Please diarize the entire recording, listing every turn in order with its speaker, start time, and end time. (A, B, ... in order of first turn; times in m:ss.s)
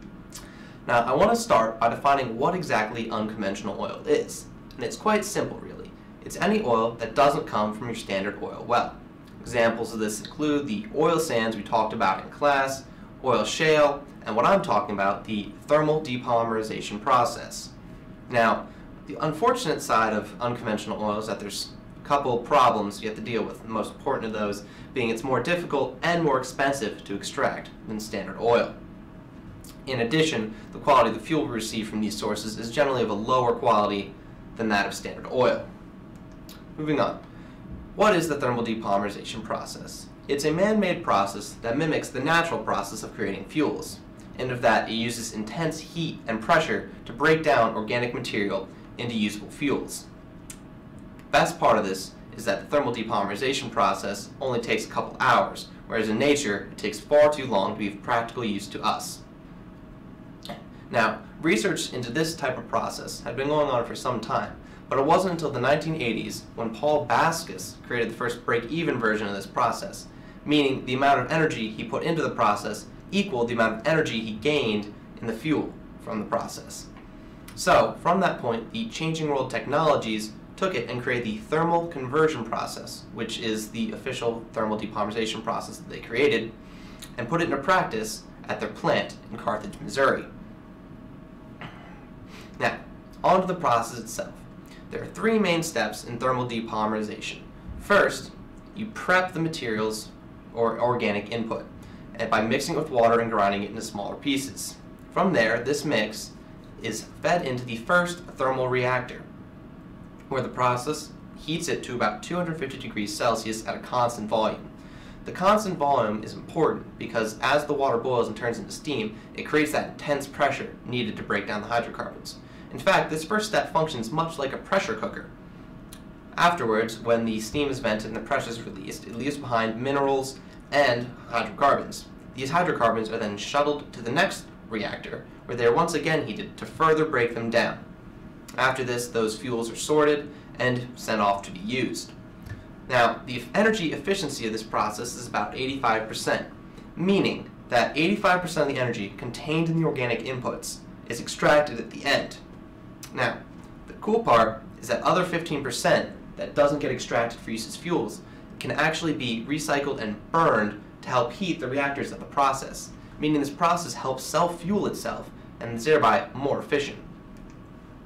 0:00.9-0:17.7 A
0:18.3-0:28.7 A
0:29.9-0:35.6 A
0:36.8-0:37.2 A
0:38.0-0:50.0 A
0:51.3-0:59.2 A
1:00.9-1:16.9 A
1:17.6-1:26.5 A
1:27.2-1:30.3 A
1:32.6-1:49.2 A
1:50.3-1:54.7 A
1:55.2-2:05.3 A
2:06.4-2:17.8 A
2:18.6-2:22.1 A
2:22.9-2:32.4 A
2:33.1-2:47.0 A